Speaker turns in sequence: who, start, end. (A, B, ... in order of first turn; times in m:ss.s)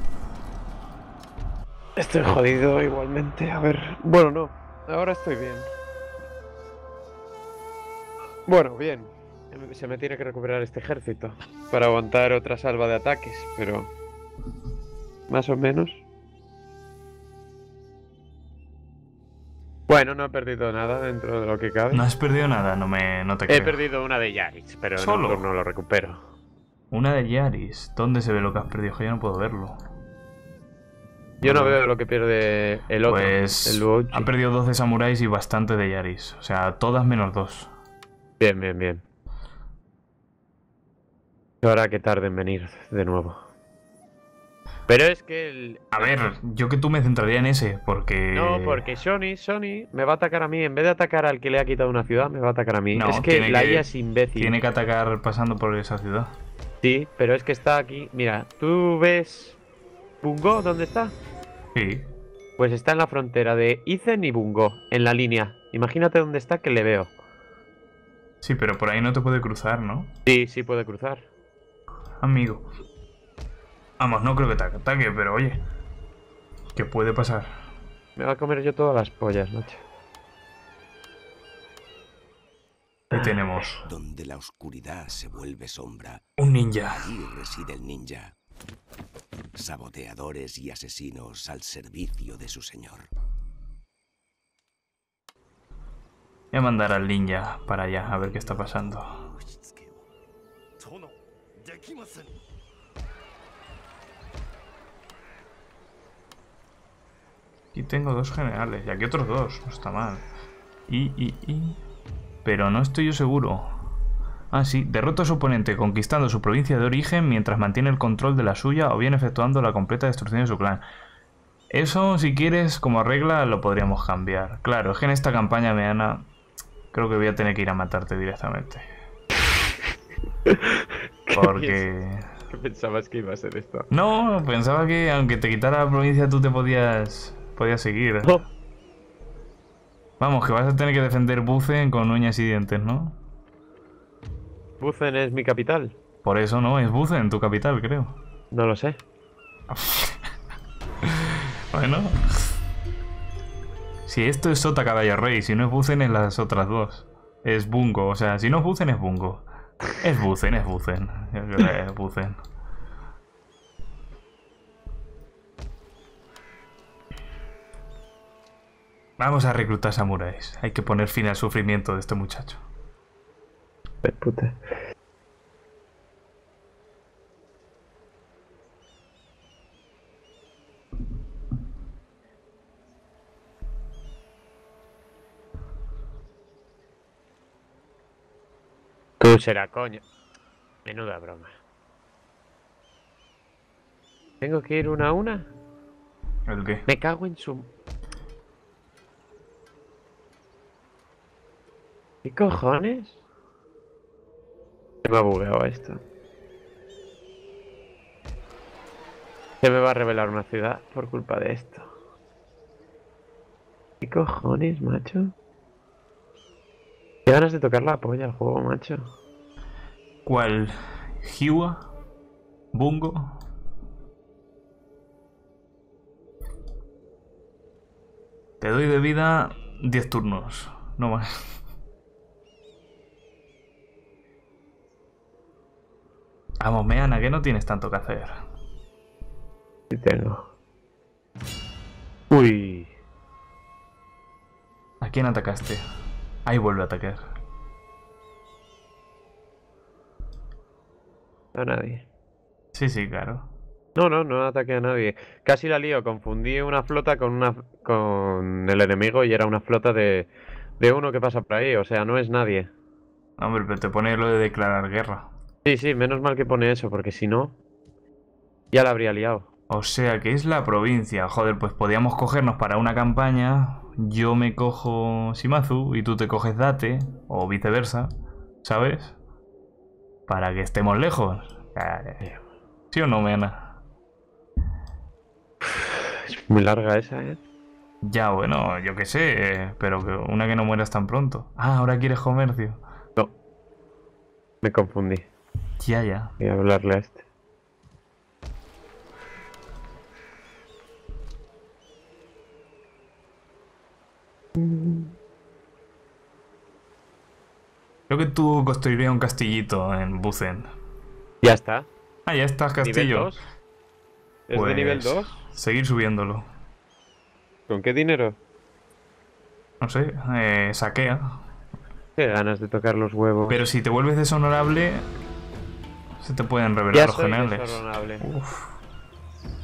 0:02.0-0:05.7 A
0:08.5-0:13.9 A
0:15.3-0:16.0 A
0:19.9-0:22.0 A
0:21.9-0:23.8 B
0:23.5-0:26.2 A
0:25.0-0:25.4 B
0:26.9-0:29.8 B
0:31.4-0:34.3 A
0:31.4-0:31.8 B
0:33.0-0:37.7 B
0:38.4-0:39.0 A
0:41.6-0:43.5 A
0:44.9-0:46.2 A
0:45.9-0:48.8 B
0:48.3-0:54.6 A
0:53.0-0:56.3 B
0:56.8-0:59.6 A
1:00.2-1:01.1 A
1:01.8-1:02.1 B
1:02.6-1:07.1 A
1:08.4-1:10.1 B
1:10.3-1:11.3 A
1:12.2-1:12.6 B
1:14.0-1:15.6 B
1:16.8-1:17.6 B
1:18.2-1:19.8 A
1:23.1-1:23.8 B
1:23.1-1:23.8 A
1:23.8-1:26.2 C
1:26.4-1:27.1 B
1:26.9-1:28.3 C
1:29.6-1:33.1 C
1:36.5-1:39.2 B
1:38.0-1:40.1 C
1:40.8-1:42.4 C
1:47.7-1:50.3 B
1:50.9-1:51.8 B
1:52.4-1:53.8 B
1:54.5-2:00.8 B
2:01.7-2:06.3 B
2:06.9-2:08.9 B
2:10.5-2:11.9 A
2:11.3-2:12.3 B
2:12.5-2:13.9 A
2:13.9-2:18.4 B
2:20.2-2:23.2 B
2:24.8-2:26.0 A
2:26.2-2:28.2 B
2:28.5-2:29.0 A
2:29.7-2:30.2 B
2:31.0-2:32.5 B
2:34.1-2:39.4 B
2:40.0-2:42.4 B
2:49.2-2:52.6 B
2:54.0-2:54.8 A
3:09.2-3:10.0 A
3:10.8-3:11.5 A
3:14.4-3:15.5 A
3:16.5-3:16.9 B
3:16.9-3:17.7 A
3:22.2-3:23.2 A
3:25.0-3:26.0 A
3:29.6-3:31.9 A
3:34.0-3:35.3 A
3:37.3-3:39.1 A
3:40.2-3:41.9 B
3:42.7-3:43.4 B
3:48.6-3:51.3 B
3:56.6-3:58.4 B
3:59.9-4:00.5 A
4:02.3-4:02.9 A
4:05.0-4:05.8 B
4:06.5-4:07.2 B
4:11.5-4:12.1 A
4:12.7-4:13.5 B
4:14.0-4:22.7 A
4:23.4-4:25.3 B
4:25.6-4:27.6 A
4:28.7-4:29.5 A
4:29.7-4:38.1 B
4:38.6-4:39.2 B
4:40.3-4:42.2 B
4:42.9-4:43.8 B
4:45.6-4:47.4 A
4:48.0-4:52.8 B
4:54.6-4:55.3 A
4:55.8-4:56.3 B
4:56.4-4:57.2 A
5:04.6-5:05.1 A
5:08.1-5:10.7 B
5:11.4-5:11.9 A
5:12.3-5:13.4 B
5:12.8-5:13.4 A
5:14.5-5:15.4 A
5:14.5-5:16.5 B
5:17.7-5:18.4 A
5:19.8-5:21.4 B
5:22.2-5:23.6 A
5:23.5-5:25.1 B
5:26.2-5:28.7 B
5:26.9-5:28.3 A